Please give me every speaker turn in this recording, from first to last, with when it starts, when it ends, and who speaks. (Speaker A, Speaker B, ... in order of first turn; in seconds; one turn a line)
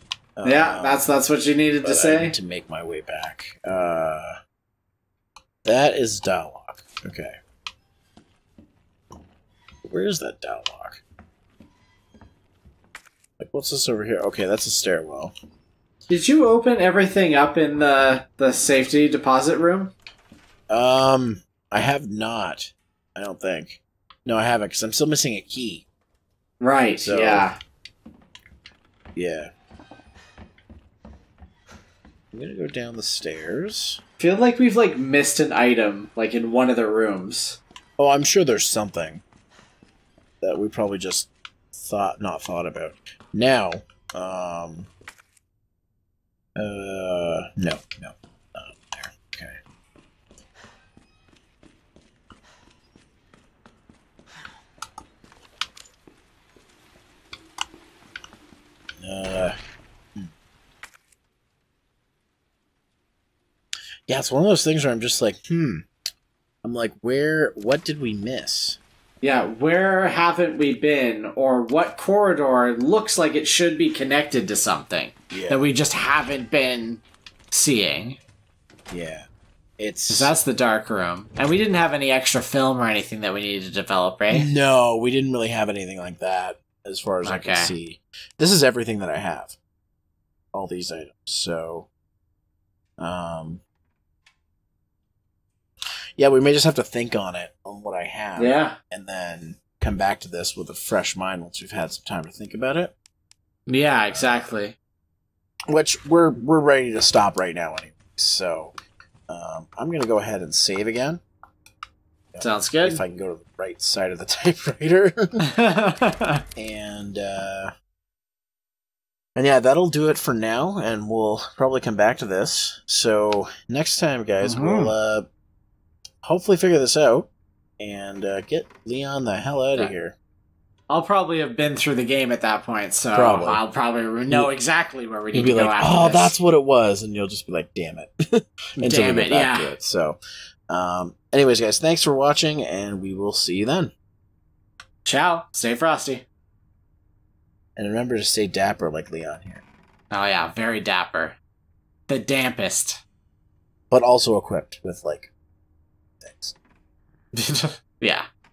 Speaker A: 0.4-1.1
Speaker B: 0.4-2.4
Speaker A: 1.8-4.4
Speaker A: 5.6-7.4
Speaker A: 9.8-11.0
Speaker A: 13.4-15.3
Speaker B: 16.1-19.9
Speaker A: 20.7-25.9
Speaker B: 26.6-27.6
Speaker A: 27.0-27.5
Speaker A: 29.1-29.5
Speaker A: 32.3-34.0
Speaker B: 34.2-37.6
Speaker A: 38.0-39.2
Speaker A: 40.4-44.9
Speaker A: 46.5-49.6
Speaker A: 59.0-59.5
Speaker A: 64.1-65.8
Speaker A: 66.6-68.8
Speaker B: 69.2-78.2
Speaker A: 75.3-75.7
Speaker A: 78.9-79.3
Speaker A: 79.8-80.3
Speaker B: 80.1-84.5
Speaker A: 84.3-89.6
Speaker B: 87.2-87.7
Speaker A: 90.5-91.9
Speaker A: 93.0-93.6
Speaker A: 96.2-102.9
Speaker B: 98.4-98.8
Speaker B: 103.7-104.8
Speaker A: 104.1-104.5
Speaker A: 105.7-108.8
Speaker A: 109.3-111.2
Speaker A: 112.3-115.4
Speaker B: 112.4-113.0
Speaker B: 115.4-116.4
Speaker A: 116.5-117.7
Speaker A: 119.3-125.3
Speaker B: 124.4-124.9
Speaker A: 126.2-130.2
Speaker B: 130.9-136.3
Speaker A: 133.1-133.6
Speaker A: 135.3-143.9
Speaker B: 138.8-139.7
Speaker B: 145.0-146.2
Speaker A: 147.8-149.6
Speaker B: 150.1-151.4
Speaker B: 152.1-153.0
Speaker A: 153.9-155.3
Speaker A: 156.2-156.6
Speaker B: 157.3-158.3